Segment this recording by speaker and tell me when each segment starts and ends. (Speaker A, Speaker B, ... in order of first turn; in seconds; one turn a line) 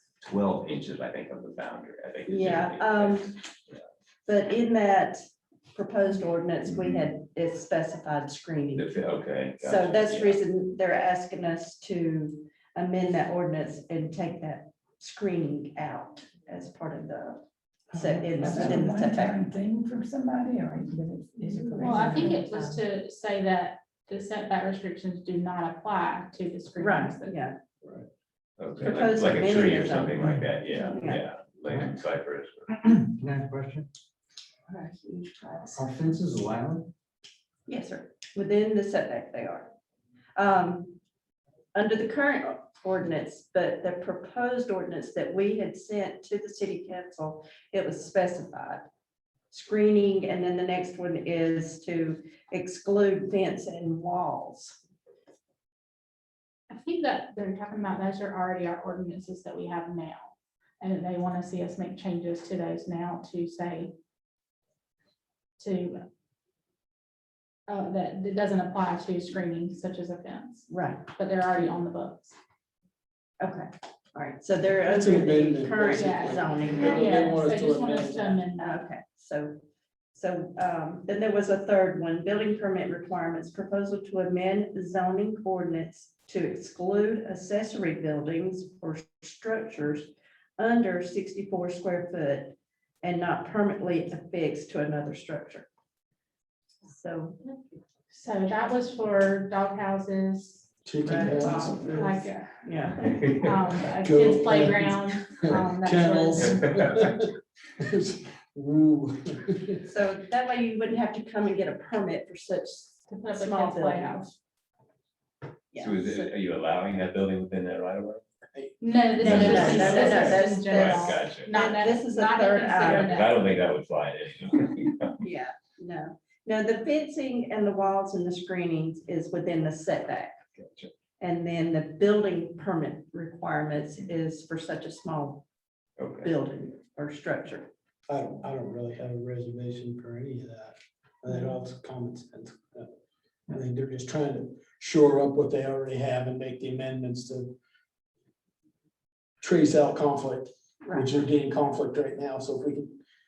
Speaker A: 0.2-3.8
Speaker B: 2.3-3.3
Speaker B: 4.3-5.2
Speaker B: 5.7-8.8
Speaker A: 6.7-7.0
Speaker A: 8.8-10.4
Speaker B: 9.6-17.4
Speaker C: 17.9-18.8
Speaker B: 17.9-19.4
Speaker D: 18.2-22.6
Speaker E: 21.8-27.4
Speaker B: 26.8-27.6
Speaker A: 28.6-32.7
Speaker B: 28.8-30.2
Speaker F: 30.2-30.5
Speaker B: 30.9-31.2
Speaker F: 31.7-31.9
Speaker F: 32.7-33.9
Speaker B: 34.7-35.9
Speaker F: 35.7-36.9
Speaker B: 37.7-39.7
Speaker B: 40.4-41.0
Speaker B: 41.7-48.9
Speaker B: 49.5-54.8
Speaker E: 56.7-63.9
Speaker E: 65.6-66.0
Speaker E: 67.7-72.3
Speaker B: 70.7-71.0
Speaker B: 73.4-77.4
Speaker C: 74.8-78.4
Speaker E: 75.9-78.8
Speaker B: 78.6-79.6
Speaker B: 80.1-95.7
Speaker B: 96.9-97.4
Speaker E: 98.1-100.7
Speaker C: 100.8-102.2
Speaker B: 101.0-103.3
Speaker E: 101.9-102.5
Speaker A: 103.0-103.4
Speaker E: 103.2-106.7
Speaker C: 104.0-109.8
Speaker A: 106.4-107.0
Speaker B: 109.9-114.3
Speaker E: 113.1-114.3
Speaker B: 115.7-116.3
Speaker A: 115.8-118.2
Speaker C: 118.5-120.3
Speaker E: 118.8-123.5
Speaker A: 119.2-121.5
Speaker B: 119.2-123.3
Speaker A: 122.8-125.1
Speaker B: 125.2-130.3
Speaker A: 130.6-130.9
Speaker B: 131.2-135.4
Speaker A: 136.0-136.3
Speaker B: 136.2-137.7
Speaker C: 138.1-142.9
Speaker C: 143.5-147.5
Speaker C: 149.4-153.0